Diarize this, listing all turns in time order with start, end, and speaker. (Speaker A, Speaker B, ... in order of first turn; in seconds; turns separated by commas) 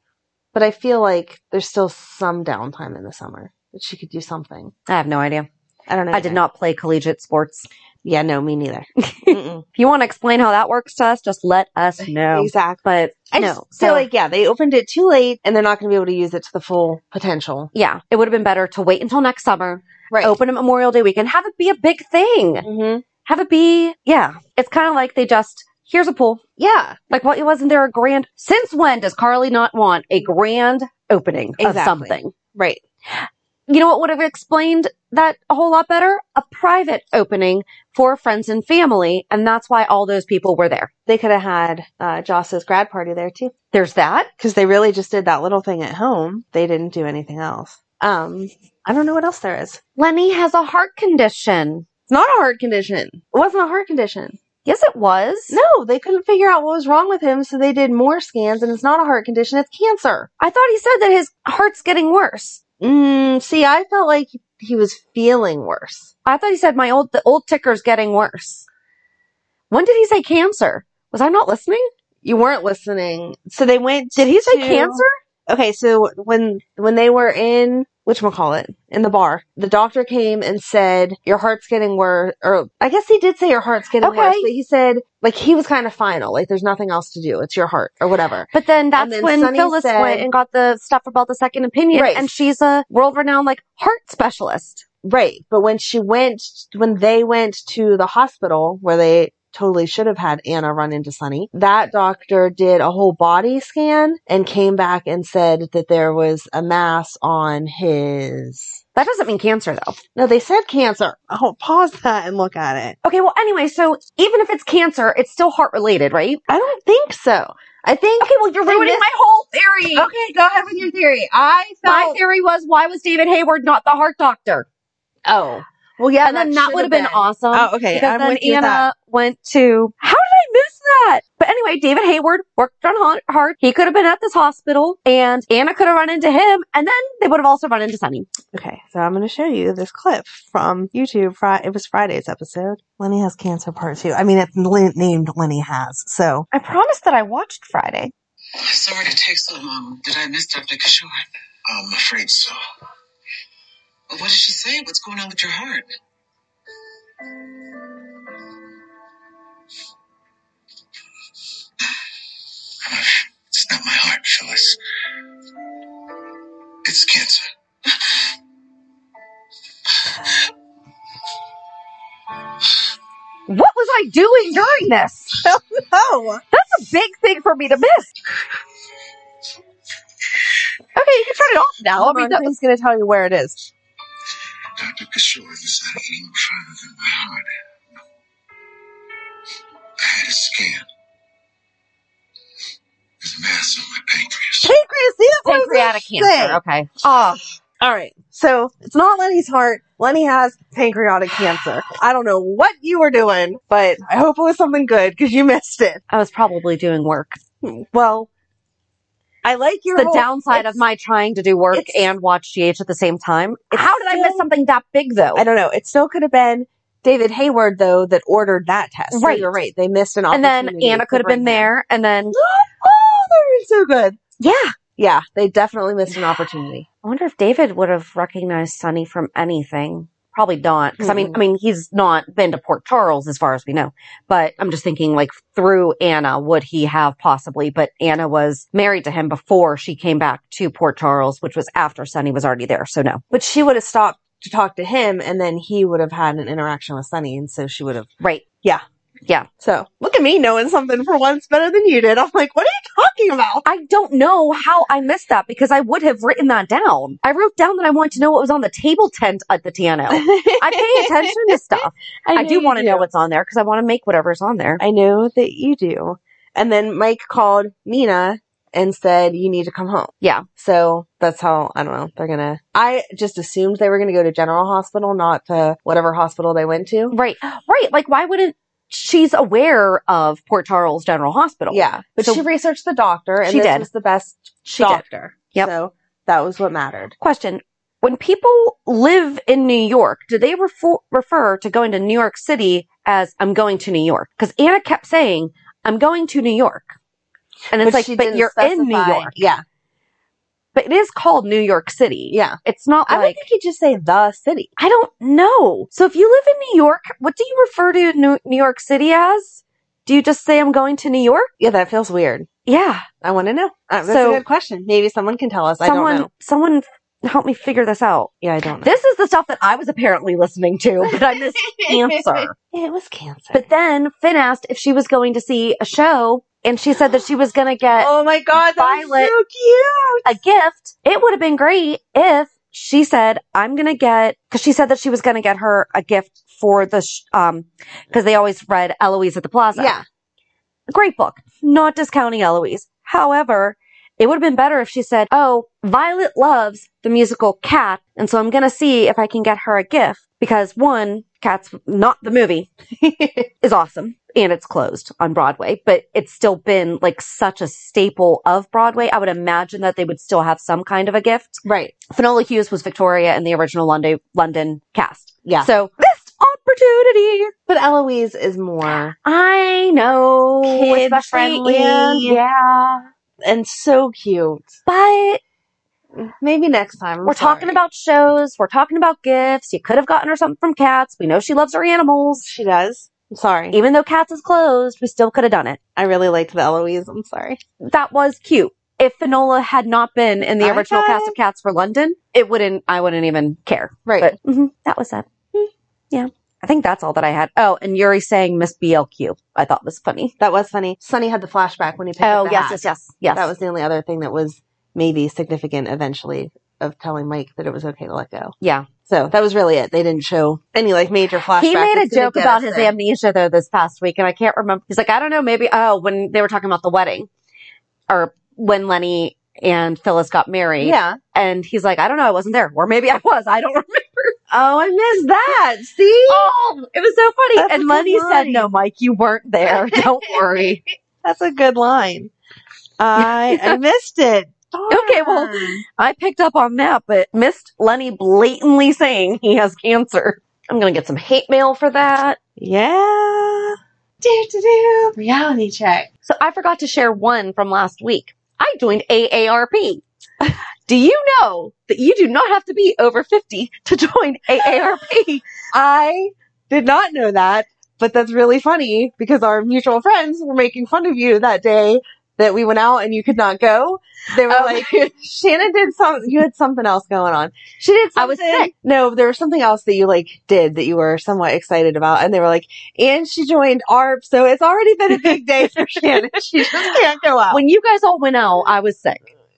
Speaker A: 0.5-4.7, Speaker B: 4.9-5.5, Speaker A: 5.9-6.4, Speaker B: 6.1-7.7, Speaker A: 8.0-9.6, Speaker B: 9.0-14.1, Speaker A: 12.2-17.7, Speaker B: 17.7-22.6, Speaker A: 20.1-20.3, Speaker A: 22.6-23.0, Speaker B: 23.2-26.4, Speaker A: 26.6-27.0, Speaker B: 27.1-32.3, Speaker A: 31.6-32.8, Speaker B: 33.1-40.9, Speaker A: 41.1-43.5, Speaker B: 43.7-44.3, Speaker A: 44.4-49.8, Speaker B: 50.0-51.9, Speaker A: 52.1-54.4, Speaker B: 54.6-55.6, Speaker A: 55.5-60.3, Speaker B: 60.4-62.6, Speaker A: 62.8-66.1, Speaker B: 66.2-68.7, Speaker B: 69.7-71.9, Speaker A: 72.2-90.3, Speaker B: 74.2-75.1, Speaker B: 84.0-84.5, Speaker B: 88.5-94.8, Speaker A: 91.9-92.3, Speaker A: 95.0-108.8, Speaker B: 108.9-110.0, Speaker A: 110.1-113.0, Speaker B: 113.0-116.4, Speaker A: 116.5-119.0, Speaker B: 118.2-120.1, Speaker A: 119.9-122.2, Speaker B: 121.8-124.7, Speaker A: 125.2-128.9, Speaker B: 126.2-138.3, Speaker A: 138.5-146.5, Speaker B: 146.5-148.1, Speaker C: 148.6-152.6, Speaker C: 154.1-155.9, Speaker C: 162.8-164.8, Speaker C: 166.8-168.2, Speaker B: 173.5-175.4, Speaker A: 175.4-176.4, Speaker B: 176.5-178.1, Speaker B: 180.9-182.5, Speaker A: 181.9-183.6, Speaker C: 184.8-187.5, Speaker C: 190.0-190.8, Speaker C: 193.2-194.7, Speaker A: 194.6-196.6, Speaker B: 195.4-197.4, Speaker A: 197.8-206.0, Speaker B: 206.1-207.4, Speaker A: 207.6-208.3, Speaker A: 209.4-210.8, Speaker B: 209.9-215.4, Speaker A: 211.7-212.1, Speaker A: 213.7-214.4, Speaker A: 215.3-221.7, Speaker B: 219.1-219.5, Speaker B: 220.3-222.4, Speaker A: 222.3-224.2, Speaker B: 224.4-224.7, Speaker A: 224.9-226.9, Speaker B: 226.1-226.4, Speaker B: 227.0-243.2, Speaker A: 231.0-231.4, Speaker A: 243.3-248.1, Speaker A: 249.6-253.7, Speaker B: 253.6-264.8, Speaker A: 260.1-263.1, Speaker A: 264.8-277.1, Speaker B: 277.1-282.4, Speaker A: 281.7-287.1, Speaker B: 283.4-283.9, Speaker B: 284.6-285.7, Speaker B: 287.2-296.9, Speaker B: 297.7-299.3, Speaker A: 297.7-299.6, Speaker B: 300.7-303.4, Speaker A: 302.3-304.7, Speaker B: 304.8-311.5, Speaker A: 311.6-312.5, Speaker B: 312.6-313.1, Speaker A: 313.2-316.3, Speaker B: 314.0-314.4, Speaker B: 315.8-322.5, Speaker A: 318.4-318.9, Speaker A: 321.0-323.6, Speaker B: 323.5-328.1, Speaker A: 328.0-330.4, Speaker B: 328.7-329.3, Speaker B: 330.2-339.9, Speaker A: 339.7-340.0, Speaker B: 340.9-352.7, Speaker A: 352.9-353.5, Speaker B: 353.6-367.5, Speaker A: 361.6-361.9, Speaker A: 365.4-365.7, Speaker A: 367.7-369.1, Speaker B: 369.2-373.1, Speaker A: 370.6-372.4, Speaker A: 373.4-374.7, Speaker B: 374.9-375.4, Speaker A: 376.1-377.8, Speaker B: 377.2-382.5, Speaker A: 382.4-383.8, Speaker B: 383.7-385.8, Speaker A: 385.9-387.6, Speaker B: 387.8-395.3, Speaker A: 390.6-391.3, Speaker A: 394.1-394.4, Speaker B: 396.1-400.3, Speaker A: 400.4-408.5, Speaker B: 402.2-403.5, Speaker B: 408.6-408.9, Speaker A: 409.1-412.9, Speaker B: 411.6-417.3, Speaker B: 418.1-424.4, Speaker A: 420.8-421.2, Speaker A: 424.5-426.4, Speaker B: 426.3-430.8, Speaker A: 427.6-428.7, Speaker A: 429.7-430.4, Speaker A: 431.2-432.3, Speaker A: 433.0-435.8, Speaker B: 433.2-433.8, Speaker B: 434.9-442.4, Speaker A: 442.6-446.1, Speaker B: 446.2-450.0, Speaker B: 450.9-455.4, Speaker A: 455.7-477.6, Speaker B: 464.5-464.8, Speaker B: 468.1-468.7, Speaker B: 477.5-479.2